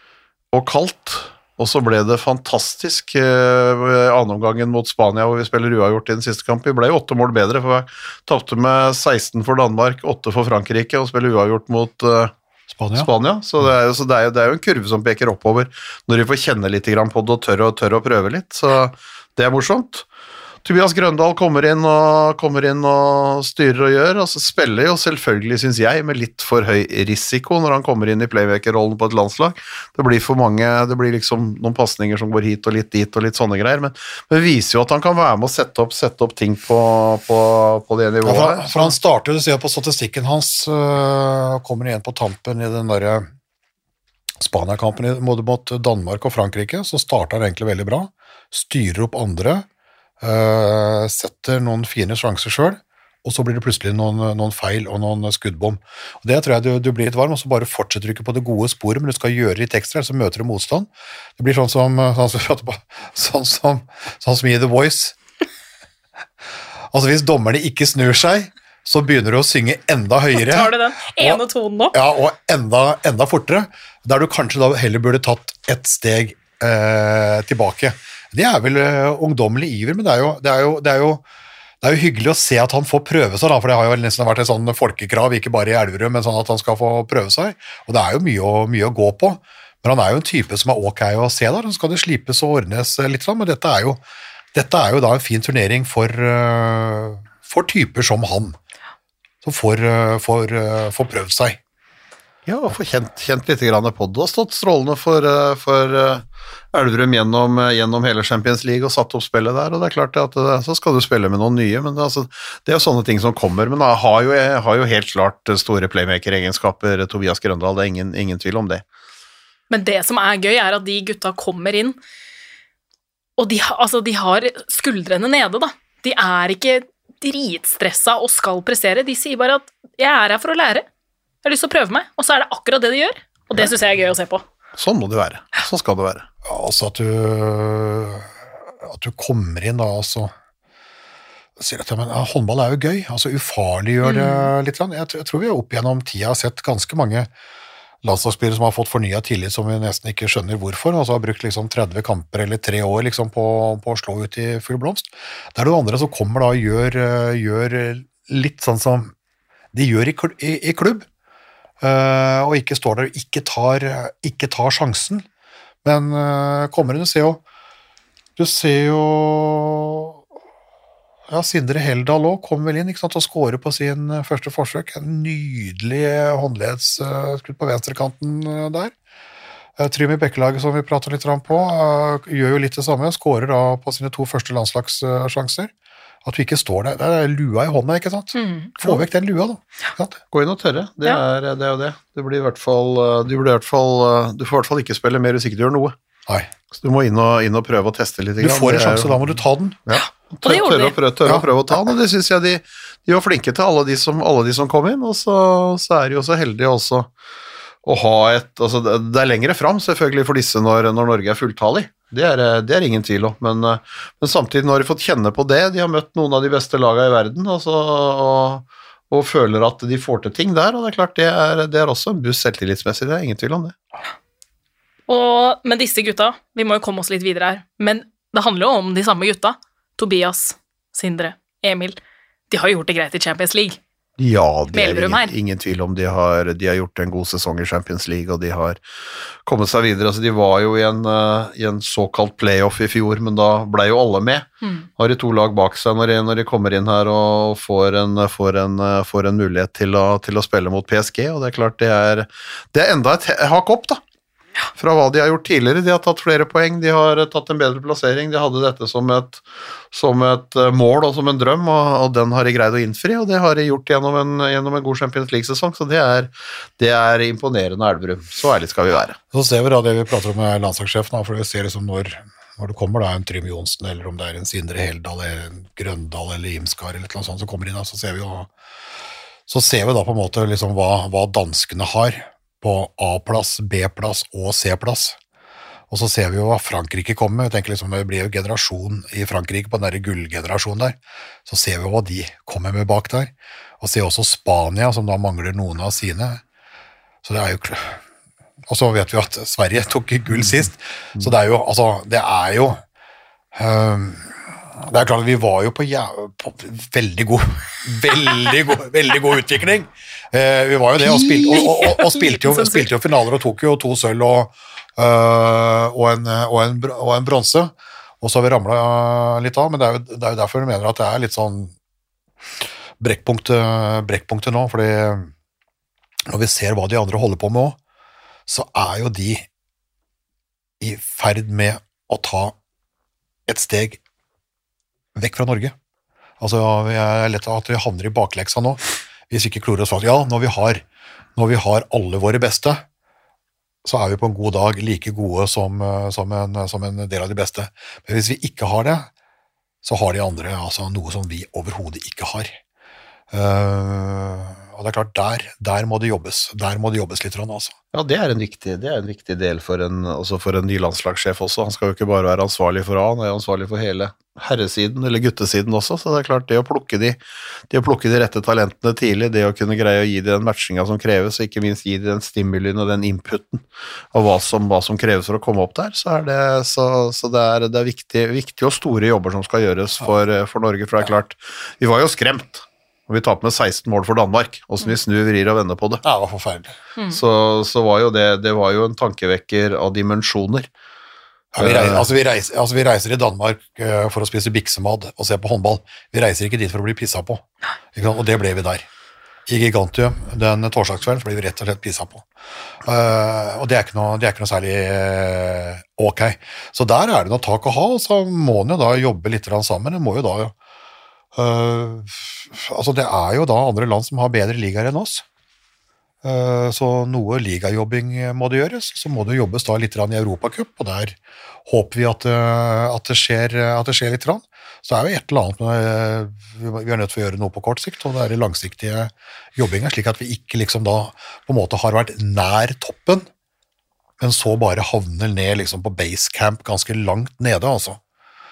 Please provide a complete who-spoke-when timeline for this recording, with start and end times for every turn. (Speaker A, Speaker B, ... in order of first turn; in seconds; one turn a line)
Speaker A: 0.5-12.3
Speaker B: 12.7-13.1
Speaker A: 12.9-20.1
Speaker A: 20.6-39.0
Speaker B: 38.2-43.3
Speaker B: 44.4-49.7
Speaker B: 50.2-65.2
Speaker B: 66.9-71.4
Speaker C: 70.4-72.0
Speaker B: 71.9-81.2
Speaker B: 81.8-94.0
Speaker B: 94.5-98.6
Speaker B: 99.4-101.6
Speaker A: 102.5-118.8
Speaker C: 119.7-122.0
Speaker C: 123.4-130.9
Speaker C: 131.4-134.4
Speaker A: 134.8-136.3
Speaker B: 136.4-140.3
Speaker B: 141.6-147.3
Speaker C: 144.0-144.5
Speaker B: 148.0-159.1
Speaker B: 159.7-161.1
Speaker B: 161.8-165.2
Speaker B: 165.8-167.4
Speaker B: 168.4-170.2
Speaker B: 171.3-178.9
Speaker B: 179.8-185.7
Speaker B: 186.2-190.2
Speaker C: 188.3-189.0
Speaker A: 190.3-195.9
Speaker A: 196.7-199.2
Speaker B: 198.4-199.8
Speaker A: 199.9-207.1
Speaker C: 200.4-200.9
Speaker A: 207.8-223.8
Speaker C: 225.1-232.0
Speaker C: 232.5-233.8
Speaker A: 234.2-238.8
Speaker C: 234.7-235.3
Speaker A: 239.4-254.0
Speaker A: 254.8-269.2
Speaker B: 269.3-278.5
Speaker B: 279.5-285.2
Speaker B: 285.9-296.4
Speaker B: 297.2-298.0
Speaker B: 298.7-302.8
Speaker B: 303.5-321.7
Speaker C: 311.0-312.9
Speaker B: 323.0-325.3
Speaker B: 326.3-327.8
Speaker B: 328.5-329.5
Speaker B: 330.8-332.6
Speaker B: 333.5-334.0
Speaker B: 335.2-335.7
Speaker B: 336.4-340.8
Speaker B: 341.4-342.8
Speaker B: 343.9-349.1
Speaker B: 349.8-352.6
Speaker B: 353.3-357.7
Speaker A: 357.9-367.2
Speaker A: 367.7-386.0
Speaker B: 386.0-386.8
Speaker A: 387.1-390.7
Speaker B: 391.5-398.9
Speaker A: 391.6-392.1
Speaker B: 399.5-402.3
Speaker B: 402.8-410.5
Speaker B: 411.4-415.2
Speaker B: 416.2-433.3
Speaker B: 434.2-438.0